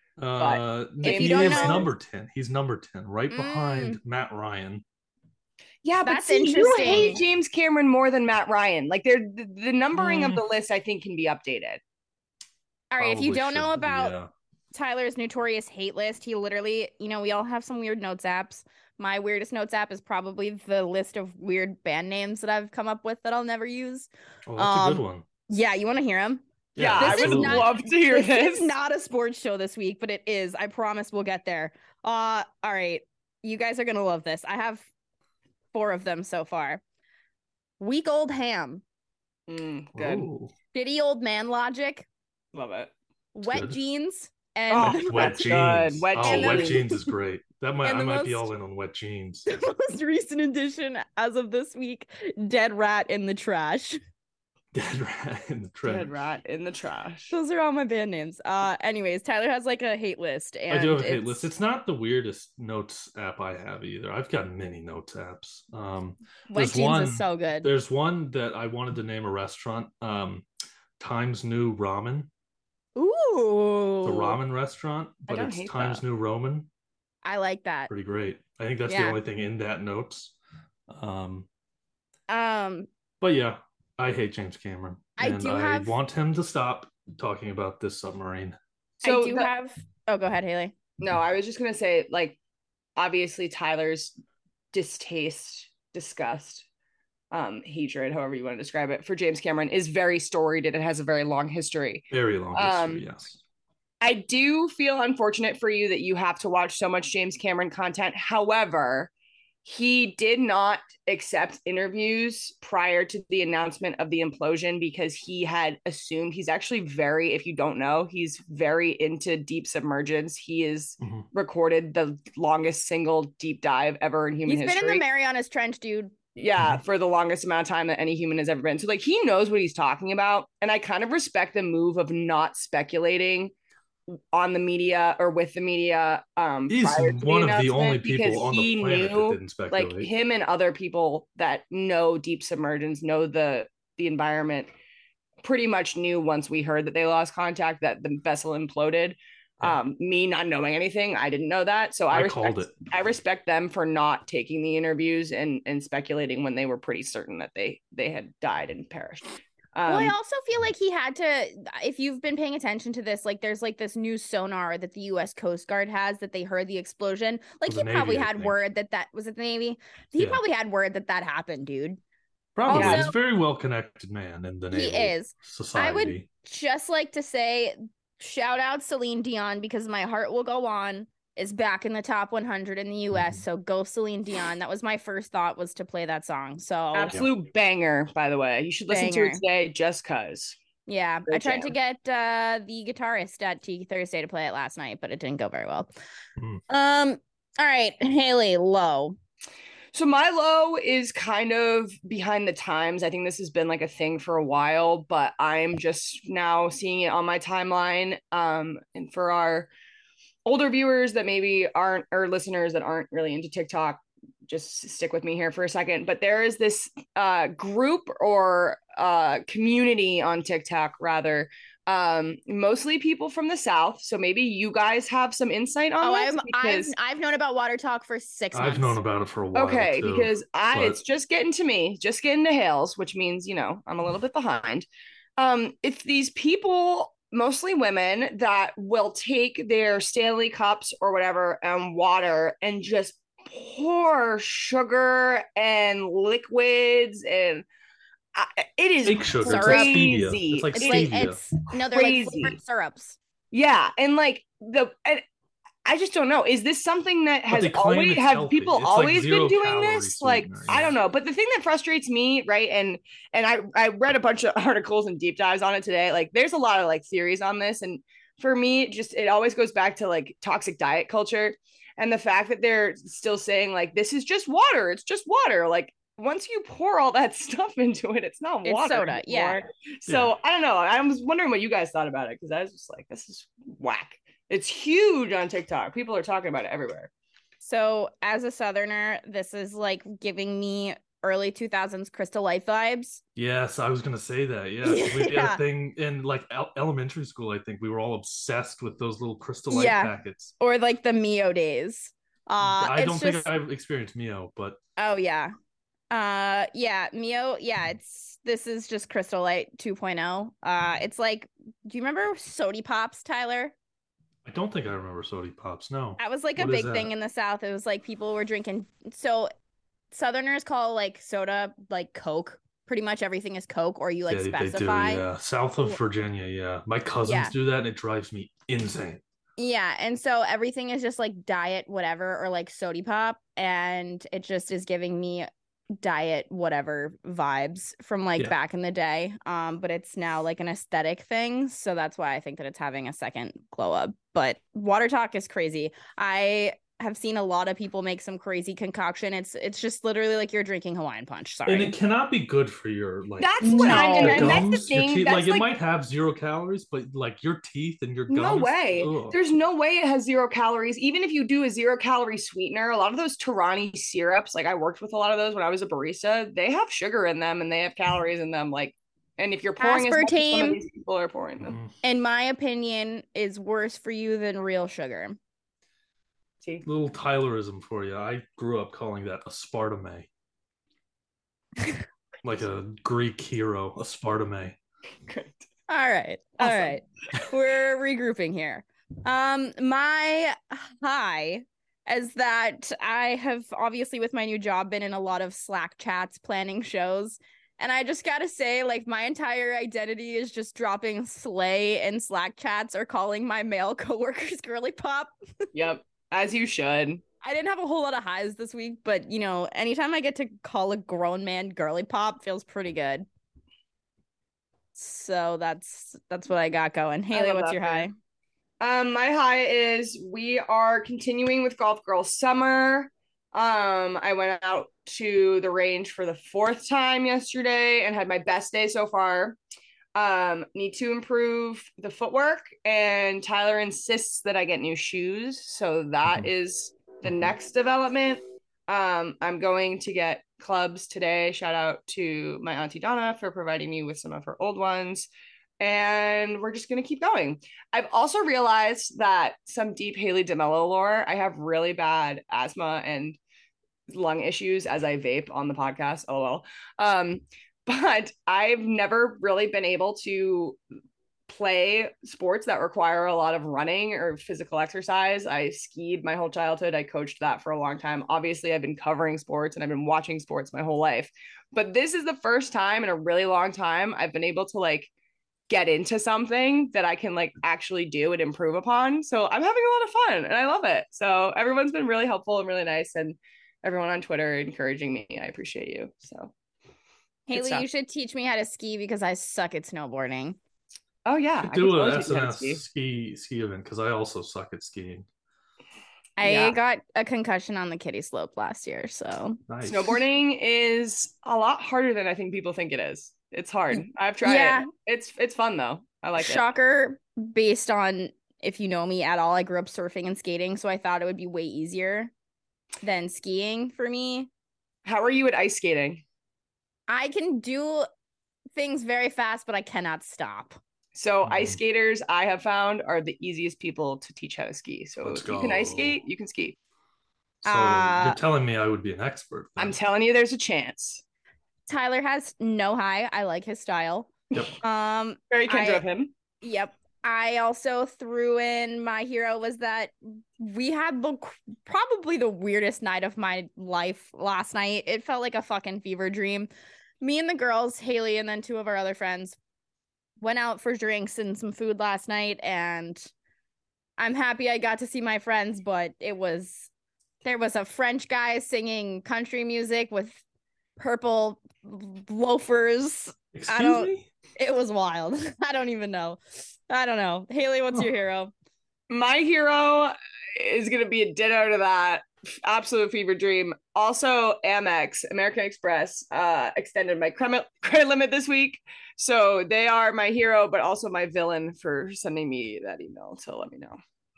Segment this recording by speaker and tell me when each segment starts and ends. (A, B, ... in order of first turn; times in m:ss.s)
0:00.2-0:04.8 A
0:00.4-0:01.9 B
0:01.0-0:01.8 C
0:03.3-0:04.0 C
0:05.8-0:11.8 B
0:06.0-0:07.2 C
0:06.8-0:07.2 A
0:10.0-0:10.4 A
0:12.9-0:14.2 C
0:13.0-0:14.3 A
0:14.7-0:26.4 C
0:24.5-0:25.2 A
0:26.8-0:27.8 A
0:26.8-0:28.7 B
0:27.0-0:34.9 C
0:35.7-0:36.8 C
0:37.8-0:38.8 C
0:39.5-0:40.3 B
0:40.0-0:40.5 A
0:40.7-0:42.1 C
0:42.5-0:42.9 B
0:43.3-0:45.5 C
0:43.4-0:43.8 A
0:44.7-0:46.9 B
0:44.8-0:49.5 A
0:46.2-0:47.0 C
0:47.8-0:48.5 C
0:49.5-0:54.0 C
0:54.7-0:56.2 A
0:55.9-0:57.3 B
0:57.3-1:01.5 C
1:00.7-1:10.5 A
1:06.5-1:07.7 C
1:11.0-1:12.3 A
1:13.0-1:14.4 C
1:14.0-1:16.7 A
1:15.3-1:16.0 B
1:17.2-1:17.9 C
1:17.9-1:20.3 A
1:18.9-1:19.2 C
1:20.9-1:21.5 A
1:22.3-1:22.9 C
1:23.2-1:28.6 A
1:25.2-1:25.9 C
1:29.0-1:29.5 B
1:29.0-1:30.8 C
1:31.0-1:32.4 B
1:33.0-1:34.1 B
1:34.7-1:36.7 B
1:37.3-1:43.0 B
1:42.1-1:43.4 A
1:44.0-1:49.1 B
1:49.6-2:05.0 B
2:01.0-2:01.3 A
2:04.5-2:06.1 C
2:06.4-2:13.5 B
2:14.1-2:24.7 B
2:16.7-2:20.1 A
2:25.4-2:40.2 B
2:32.1-2:32.7 A
2:39.9-2:52.0 C
2:47.7-2:48.6 A
2:50.2-2:50.4 A
2:52.6-2:56.3 A
2:52.7-2:53.1 C
2:52.7-2:53.1 B
2:54.7-3:07.2 C
3:06.9-3:10.6 B
3:08.9-3:09.4 C
3:10.9-3:15.9 C
3:11.3-3:11.7 B
3:16.7-3:19.2 C
3:19.9-3:29.7 B
3:30.5-3:46.9 B
3:46.0-3:49.0 C
3:48.5-3:51.0 A
3:49.6-4:07.6 B
4:08.4-4:11.1 B
4:09.0-4:11.4 A
4:09.5-4:10.1 C
4:10.8-4:13.2 C
4:11.9-4:12.6 B
4:13.5-4:15.2 B
4:15.8-4:47.1 B
4:17.5-4:21.0 A
4:38.6-4:39.6 C
4:40.1-4:40.3 A
4:47.6-4:53.2 C
4:53.4-5:00.5 A
4:54.8-4:55.6 C
4:59.7-5:03.5 C
5:02.6-5:04.8 A
5:05.0-5:05.5 C
5:06.1-5:13.7 C
5:14.4-5:17.1 A
5:16.2-5:19.5 C
5:20.1-5:25.2 C
5:24.3-5:29.2 A
5:27.3-5:27.5 C
5:29.6-5:52.0 C
5:51.7-5:59.4 A
5:53.4-5:55.6 B
5:53.6-5:54.6 C
5:58.3-6:11.8 B
6:09.8-6:10.8 C
6:11.6-6:11.9 A
6:12.0-6:15.4 C
6:16.8-6:20.3 A
6:22.4-6:24.8 A
6:25.3-6:25.7 B
6:25.9-6:45.3 C
6:26.6-6:26.9 B
6:45.7-6:47.2 B
6:47.4-6:53.3 C
6:55.0-6:58.2 C
6:57.3-6:58.1 B
6:58.8-7:09.6 B
7:10.2-7:25.3 B
7:17.3-7:17.5 A
7:25.8-7:33.4 B
7:34.1-7:40.8 B
7:41.5-7:55.1 B
7:55.7-8:06.5 B
8:07.5-8:10.6 C
8:07.5-8:07.8 B
8:11.3-8:12.8 B
8:11.6-8:15.3 A
8:16.4-8:19.6 C
8:16.4-8:16.8 B
8:19.7-8:20.2 A
8:19.9-8:26.6 B
8:23.9-8:24.9 C
8:26.4-8:32.3 C
8:33.0-8:34.5 C
8:35.0-8:36.2 B
8:37.1-8:38.1 C
8:38.8-8:40.8 C
8:41.2-8:46.8 B
8:41.4-8:41.8 A
8:45.2-8:46.2 A
8:47.6-8:48.4 C
8:47.6-8:50.0 A
8:49.8-8:51.2 B
8:51.9-8:56.0 C
8:55.5-8:56.3 B
8:56.6-9:06.7 C
9:07.2-9:09.6 C
9:10.4-9:13.3 C
9:14.2-9:16.9 C
9:17.4-9:20.4 C
9:21.0-9:28.5 C
9:23.5-9:24.3 A
9:29.1-9:44.0 B